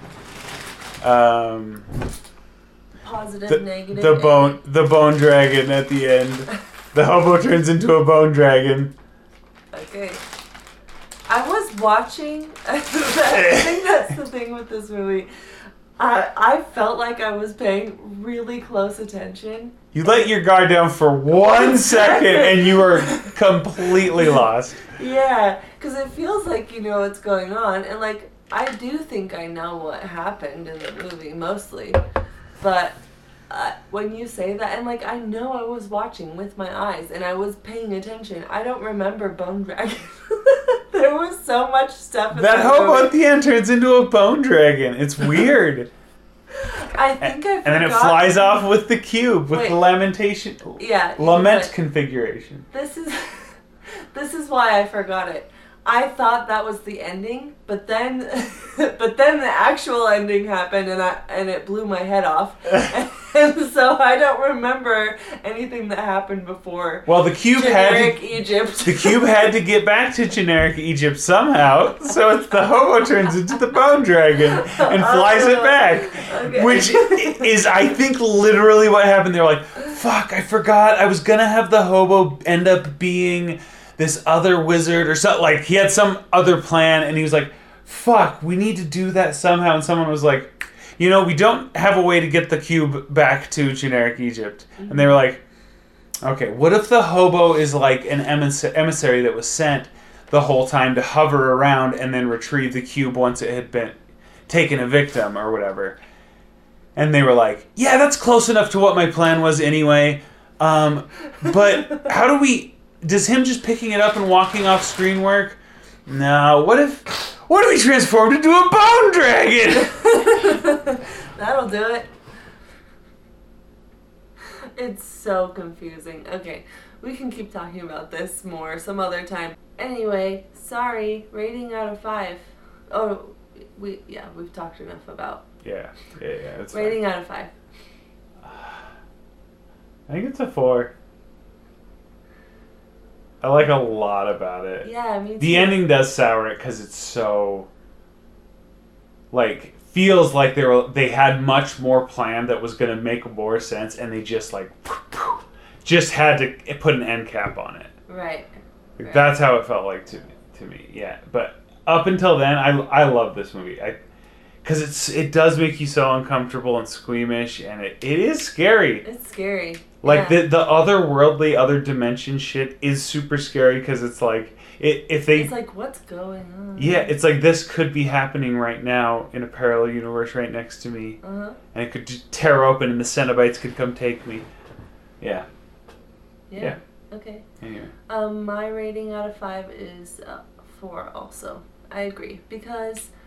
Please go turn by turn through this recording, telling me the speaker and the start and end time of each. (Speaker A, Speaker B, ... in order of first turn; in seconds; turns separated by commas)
Speaker A: 1.0-1.9, Speaker A: 3.0-8.9, Speaker B: 3.1-4.5, Speaker B: 9.8-10.2, Speaker B: 11.3-15.3, Speaker A: 12.4-15.2, Speaker B: 16.0-19.8, Speaker A: 16.7-18.3, Speaker A: 19.6-31.6, Speaker B: 21.4-32.0, Speaker A: 32.6-32.9, Speaker A: 33.5-45.9, Speaker B: 33.6-43.1, Speaker A: 46.5-53.5, Speaker B: 47.1-48.6, Speaker B: 50.8-51.7, Speaker B: 52.7-53.1, Speaker B: 54.2-69.2, Speaker A: 66.8-95.4, Speaker B: 74.5-77.5, Speaker B: 94.8-95.2, Speaker A: 96.2-104.0, Speaker A: 104.5-106.0, Speaker A: 107.0-120.7, Speaker B: 111.4-112.0, Speaker B: 119.8-122.1, Speaker A: 121.5-122.0, Speaker B: 124.8-135.5, Speaker A: 135.6-137.2, Speaker B: 136.7-137.5, Speaker A: 138.4-138.9, Speaker A: 140.1-140.9, Speaker A: 143.4-147.7, Speaker B: 144.8-145.8, Speaker A: 149.3-157.9, Speaker B: 158.1-158.5, Speaker A: 159.0-164.0, Speaker B: 159.0-159.4, Speaker A: 164.6-169.1, Speaker B: 169.0-170.5, Speaker A: 169.8-184.5, Speaker B: 175.4-177.2, Speaker B: 181.2-181.6, Speaker A: 185.2-185.5, Speaker A: 186.5-187.9, Speaker B: 186.5-187.4, Speaker B: 188.0-193.1